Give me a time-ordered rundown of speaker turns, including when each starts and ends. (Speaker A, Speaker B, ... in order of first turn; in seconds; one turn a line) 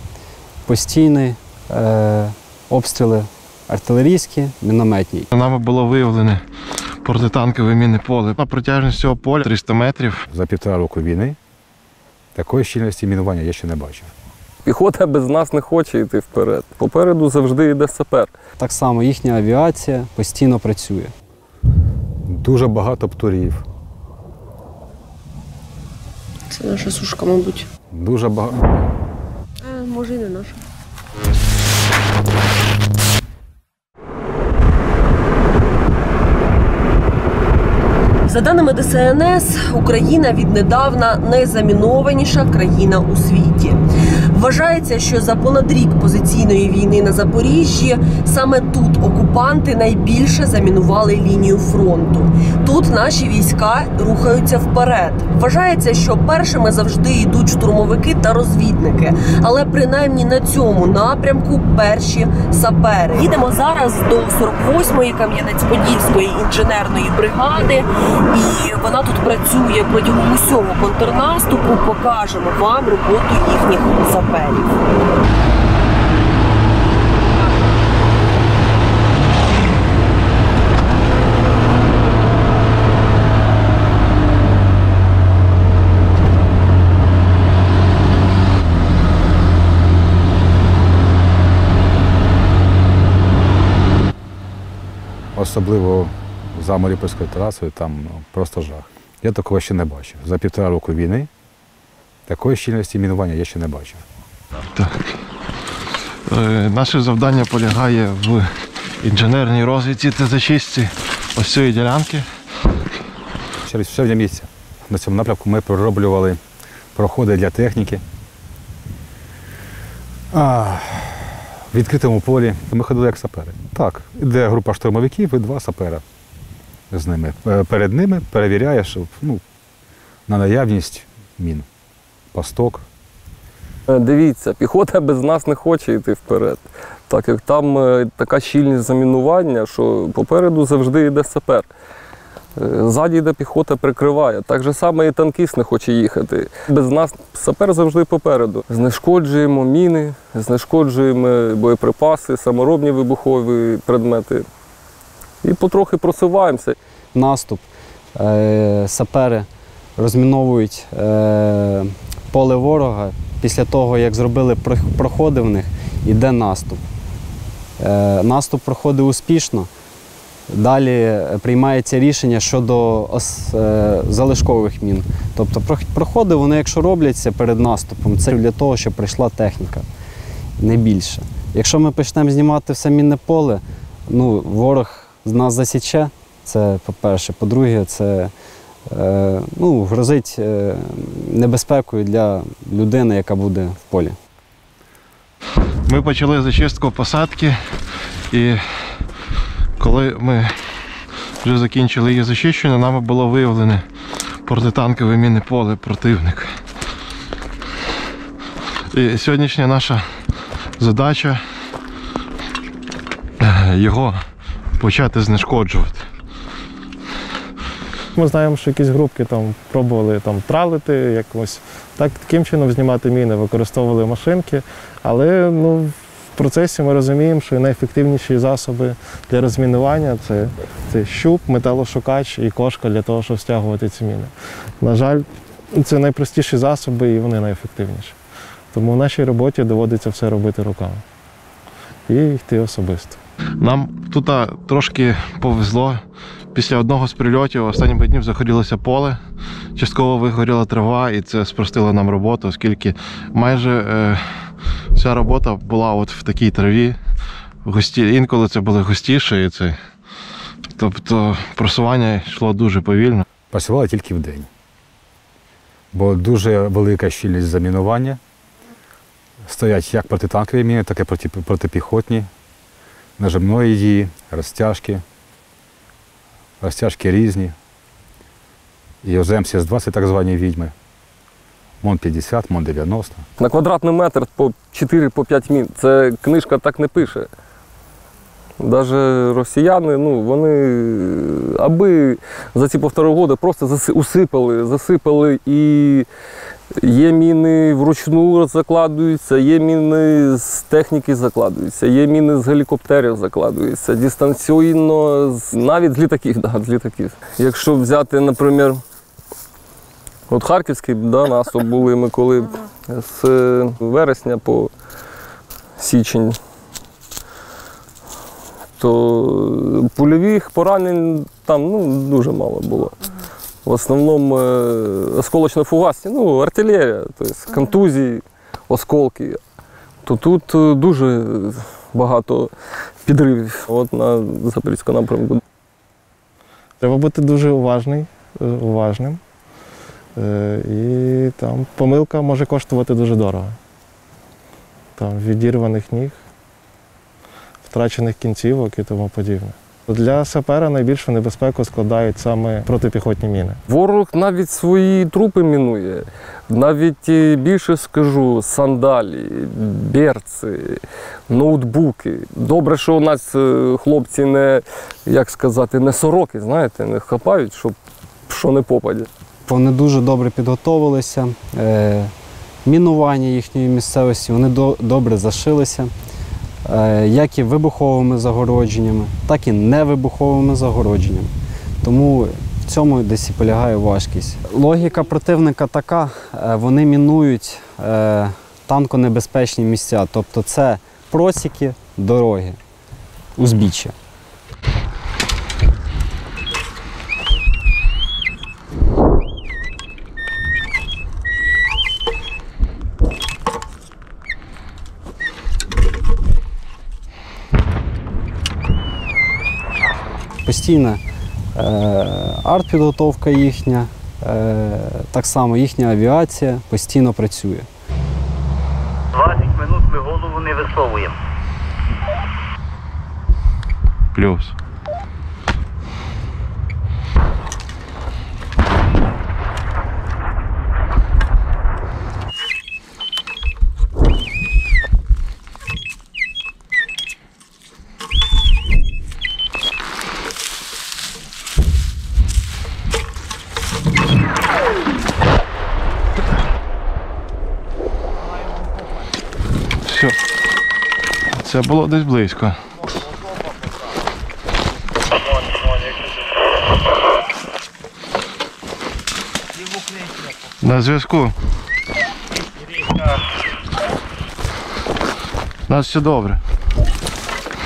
Speaker A: 0.7-5.3
Speaker B: 5.3-10.2
Speaker C: 10.3-11.4
Speaker C: 12.3-14.1
Speaker D: 14.6-18.3
Speaker A: 18.6-21.1
Speaker C: 22.3-23.6
Speaker E: 26.5-27.7
Speaker C: 27.9-28.9
Speaker E: 29.6-30.6
Speaker E: 38.2-74.8
Speaker C: 95.3-101.3
Speaker C: 102.3-104.0
Speaker B: 104.7-105.0
Speaker B: 106.2-112.3
Speaker C: 113.6-116.4
Speaker C: 117.0-118.0
Speaker C: 120.3-126.0
Speaker C: 126.9-129.4
Speaker C: 130.3-131.7
Speaker C: 132.3-132.8
Speaker D: 133.9-141.7
Speaker D: 142.6-154.4
Speaker D: 155.4-156.8
Speaker A: 157.1-166.8
Speaker A: 167.8-169.7
Speaker A: 170.5-179.8
Speaker A: 180.6-188.3
Speaker A: 188.9-194.2
Speaker B: 195.8-197.6
Speaker B: 198.3-199.1
Speaker B: 199.8-200.6
Speaker B: 201.4-203.8
Speaker B: 204.4-206.6
Speaker B: 208.9-210.2
Speaker B: 210.8-211.4
Speaker B: 213.4-214.2
Speaker B: 214.8-216.1
Speaker F: 218.1-238.2
Speaker F: 238.7-241.0
Speaker F: 242.1-243.2
Speaker B: 243.6-249.2
Speaker B: 249.7-257.0
Speaker B: 257.6-259.8
Speaker B: 260.7-263.2
Speaker C: 263.5-264.5
Speaker C: 265.9-268.2
Speaker C: 269.4-272.3
Speaker C: 273.2-275.0
Speaker C: 276.6-277.5
Speaker C: 279.0-280.7
Speaker C: 281.8-283.2
Speaker D: 283.4-287.3
Speaker D: 288.6-296.1
Speaker D: 296.7-308.8
Speaker D: 310.3-314.7
Speaker D: 315.8-316.4
Speaker D: 318.8-323.0
Speaker D: 323.6-329.4
Speaker D: 330.0-332.5
Speaker D: 333.0-335.4
Speaker F: 336.8-339.2
Speaker F: 340.1-343.6
Speaker F: 344.9-346.2
Speaker F: 347.6-353.6
Speaker D: 353.7-367.8
Speaker D: 368.3-369.1
Speaker A: 369.5-372.1
Speaker A: 372.6-375.9
Speaker A: 376.6-392.6
Speaker A: 393.4-393.9
Speaker A: 410.4-411.0
Speaker A: 411.5-417.7
Speaker G: 419.1-421.1
Speaker B: 424.1-424.5
Speaker B: 449.8-450.2
Speaker B: 451.3-452.6
Speaker B: 460.6-461.3
Speaker B: 465.7-466.4